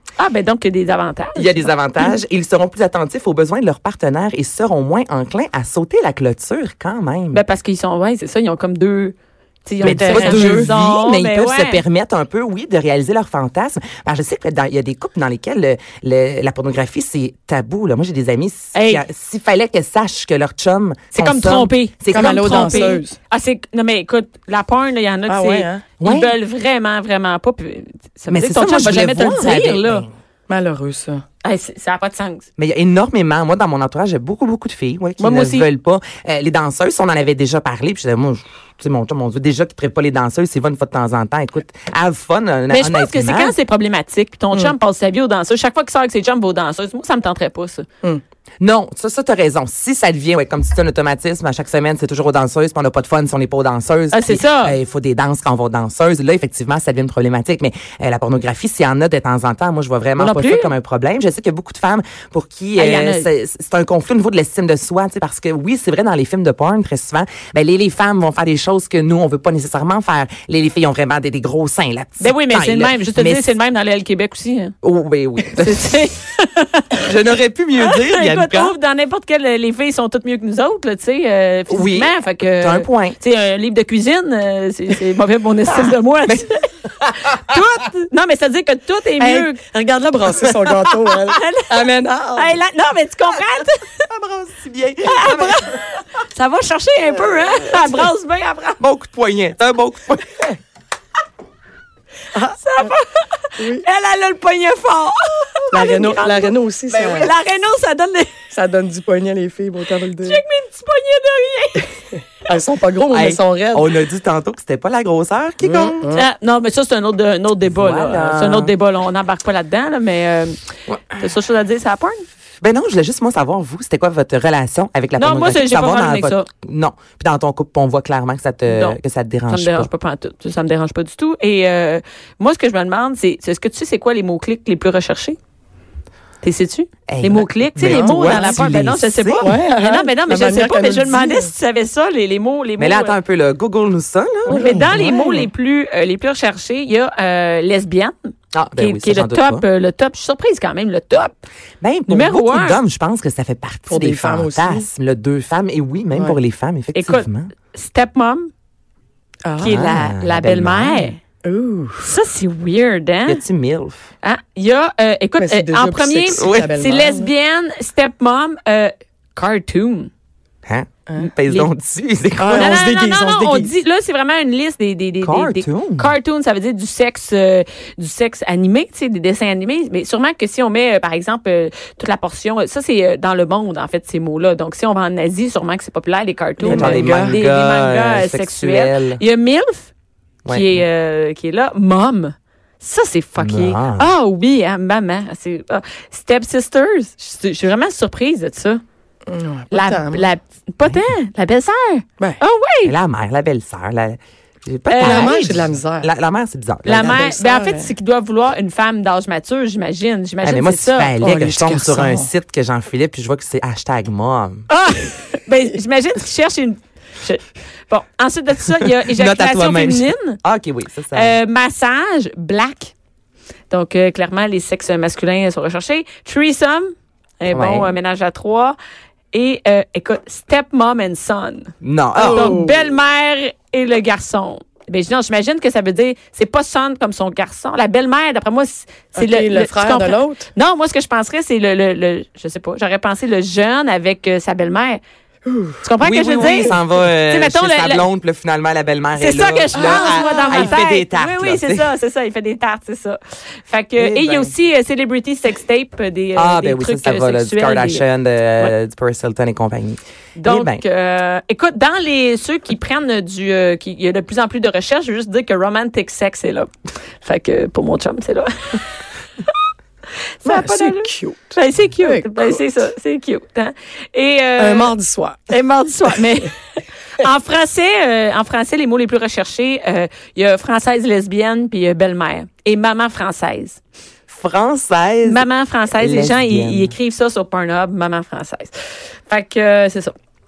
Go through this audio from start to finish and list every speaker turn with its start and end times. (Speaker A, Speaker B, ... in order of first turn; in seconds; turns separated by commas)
Speaker A: 0.2-2.2, Speaker B: 1.4-7.4, Speaker A: 7.3-11.8, Speaker C: 9.8-10.7, Speaker B: 9.8-23.0, Speaker A: 18.7-19.0, Speaker A: 21.1-30.1, Speaker C: 22.1-23.2, Speaker C: 25.3-25.9, Speaker B: 26.0-26.3, Speaker B: 28.3-30.1, Speaker C: 30.5-31.2, Speaker A: 31.4-32.5, Speaker B: 32.6-43.5, Speaker A: 35.2-35.7, Speaker A: 42.7-47.9, Speaker B: 48.6-73.5, Speaker A: 54.1-54.8, Speaker A: 60.2-60.7, Speaker A: 62.8-63.3, Speaker A: 72.2-74.7, Speaker B: 74.8-76.0, Speaker A: 75.4-77.1, Speaker B: 77.0-78.8, Speaker A: 77.8-86.7, Speaker B: 81.7-83.2, Speaker B: 85.8-86.5, Speaker B: 87.0-87.6, Speaker A: 87.3-89.6, Speaker C: 89.2-92.6, Speaker A: 91.2-91.8, Speaker A: 92.3-93.9, Speaker B: 94.0-95.8, Speaker A: 95.0-98.8, Speaker B: 97.2-98.1, Speaker B: 98.8-100.5, Speaker C: 102.3-103.0, Speaker A: 102.6-108.3, Speaker C: 103.6-103.8, Speaker C: 105.7-107.3, Speaker C: 108.5-110.4, Speaker A: 110.2-111.9, Speaker C: 112.5-113.9, Speaker B: 113.1-116.1, Speaker C: 115.6-116.2, Speaker A: 116.1-122.2, Speaker B: 117.7-118.7, Speaker B: 120.9-121.2, Speaker B: 122.6-129.9, Speaker A: 125.2-126.5, Speaker A: 128.7-135.4, Speaker A: 136.4-143.2, Speaker B: 137.1-139.5, Speaker C: 137.8-138.8, Speaker C: 139.4-141.5, Speaker B: 142.8-145.0, Speaker C: 144.5-145.5, Speaker A: 144.5-151.4, Speaker B: 148.5-149.7, Speaker B: 151.8-157.5, Speaker A: 152.1-152.8, Speaker C: 153.9-154.9, Speaker A: 156.9-158.5, Speaker C: 159.4-159.8, Speaker B: 159.6-161.1, Speaker A: 159.6-161.2, Speaker C: 161.4-162.1, Speaker A: 162.0-163.4, Speaker B: 163.3-164.1, Speaker A: 164.2-170.1, Speaker C: 165.4-167.3, Speaker B: 166.3-166.8, Speaker B: 170.7-172.9, Speaker C: 172.4-173.7, Speaker A: 172.5-189.9, Speaker B: 175.2-176.2, Speaker C: 186.6-187.4, Speaker B: 186.7-189.2, Speaker B: 190.5-190.8, Speaker A: 190.5-198.8, Speaker B: 193.4-194.1, Speaker C: 199.3-200.3, Speaker A: 199.7-202.9, Speaker B: 202.8-207.3, Speaker A: 204.9-205.3, Speaker C: 205.0-206.1, Speaker A: 206.8-211.2, Speaker C: 206.9-207.9, Speaker B: 210.4-214.7, Speaker C: 211.2-212.3, Speaker A: 214.7-220.4, Speaker B: 219.1-221.4, Speaker A: 221.1-222.9, Speaker A: 223.7-228.8, Speaker B: 227.5-227.9, Speaker A: 229.3-245.0, Speaker B: 231.8-232.6, Speaker C: 232.2-232.9, Speaker C: 239.2-240.5, Speaker C: 245.5-245.8, Speaker A: 245.8-248.1, Speaker B: 246.0-251.9, Speaker C: 246.4-246.7, Speaker A: 249.2-258.1, Speaker C: 249.7-250.8, Speaker B: 254.0-254.5, Speaker B: 256.4-260.8, Speaker A: 260.4-266.7, Speaker A: 267.2-269.5, Speaker A: 270.4-274.9, Speaker C: 270.4-272.6, Speaker C: 274.6-275.5, Speaker A: 275.5-283.8, Speaker B: 284.3-286.9, Speaker A: 285.2-290.1